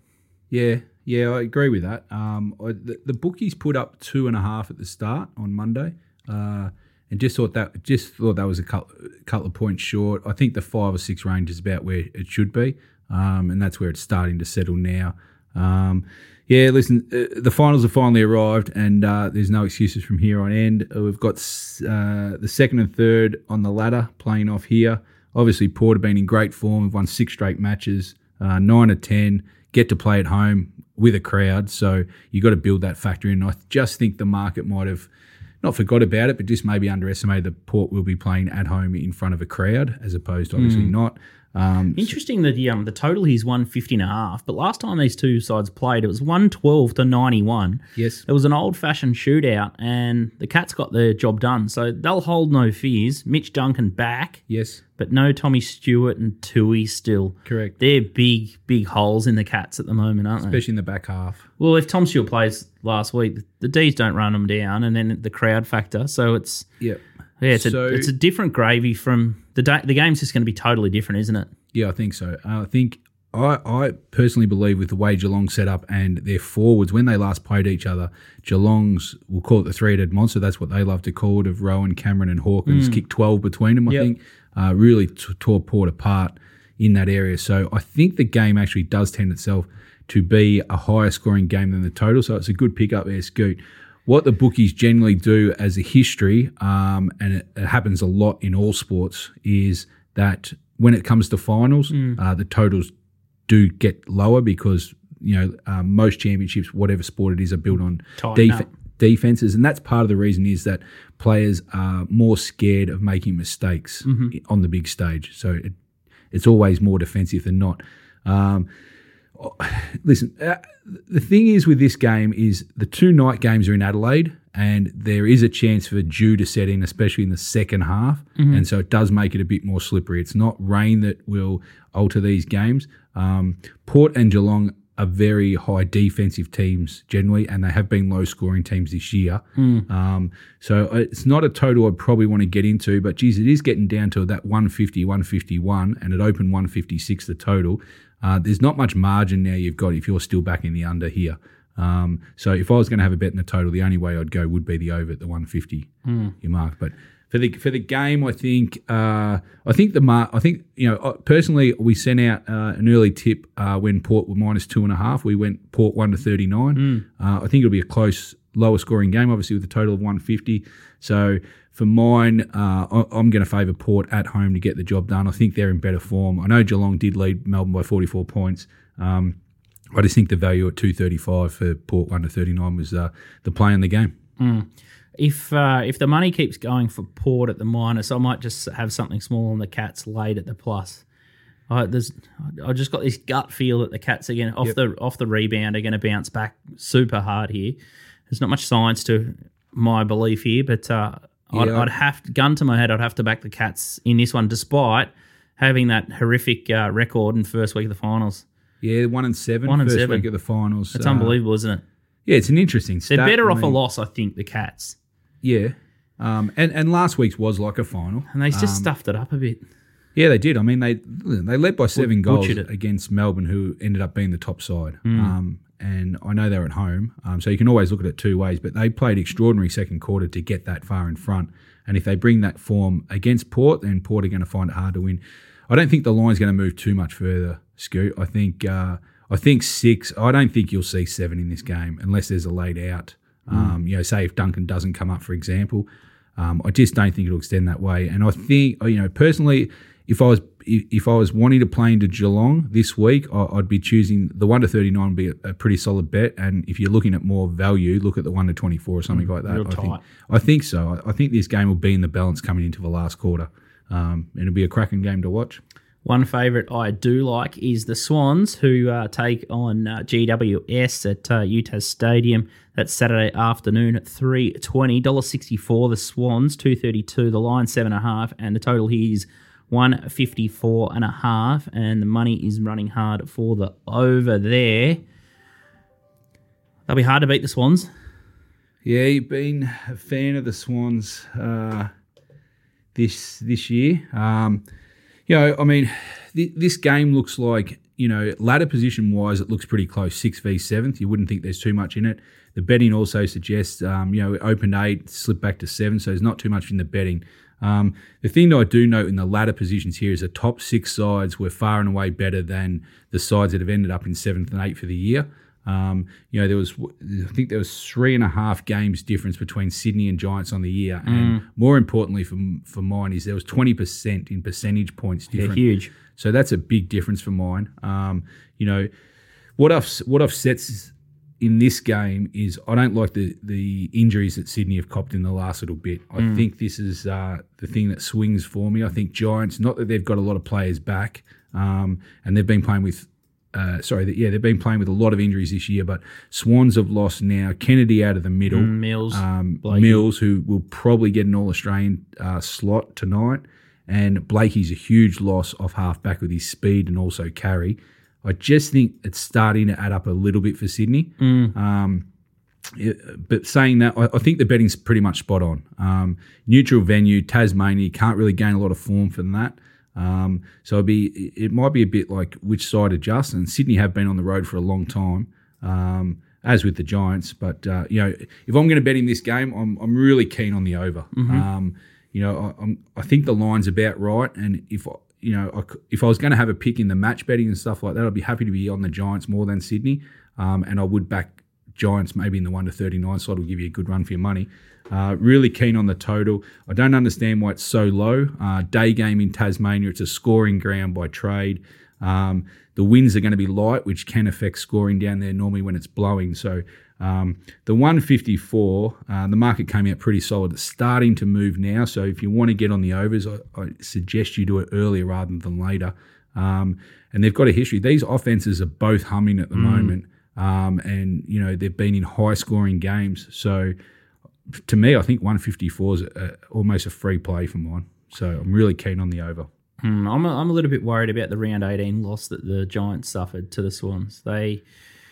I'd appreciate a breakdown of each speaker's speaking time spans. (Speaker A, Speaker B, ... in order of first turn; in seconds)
Speaker A: 0.5-35.1, 35.6-42.1, 48.0-48.2, 54.5-54.8, 57.4-57.8, 60.4-61.5, 66.8-68.1, 71.7-102.9, 103.5-115.7, 116.3-118.7, 119.3-179.4, 179.9-184.1, 201.5-201.9, 208.8-211.4, 212.2-213.8, 215.4-218.9, 220.1-245.8, 246.4-265.6, 288.8-291.9, 292.9-294.6, 295.3-328.9, 329.6-362.1, 362.7-423.7, 424.5-429.5
Speaker B: 40.5-40.9, 41.9-54.4, 55.0-60.6, 61.6-66.7, 67.4-71.5, 82.7-83.0, 101.9-102.2, 108.2-108.7, 114.0-114.3, 128.3-128.6, 139.6-139.8, 156.0-156.3, 166.8-167.0, 184.4-191.0, 191.7-197.8, 198.3-208.4, 209.7-210.3, 210.9-211.8, 213.0-214.9, 218.3-219.6, 221.9-222.7, 225.0-225.3, 243.5-243.7, 259.1-260.0, 266.0-285.0, 286.9-287.9, 321.0-321.4, 325.3-325.9, 336.2-336.4, 348.5-350.1, 361.2-361.5, 381.1-381.4, 419.5-419.9, 429.8-434.6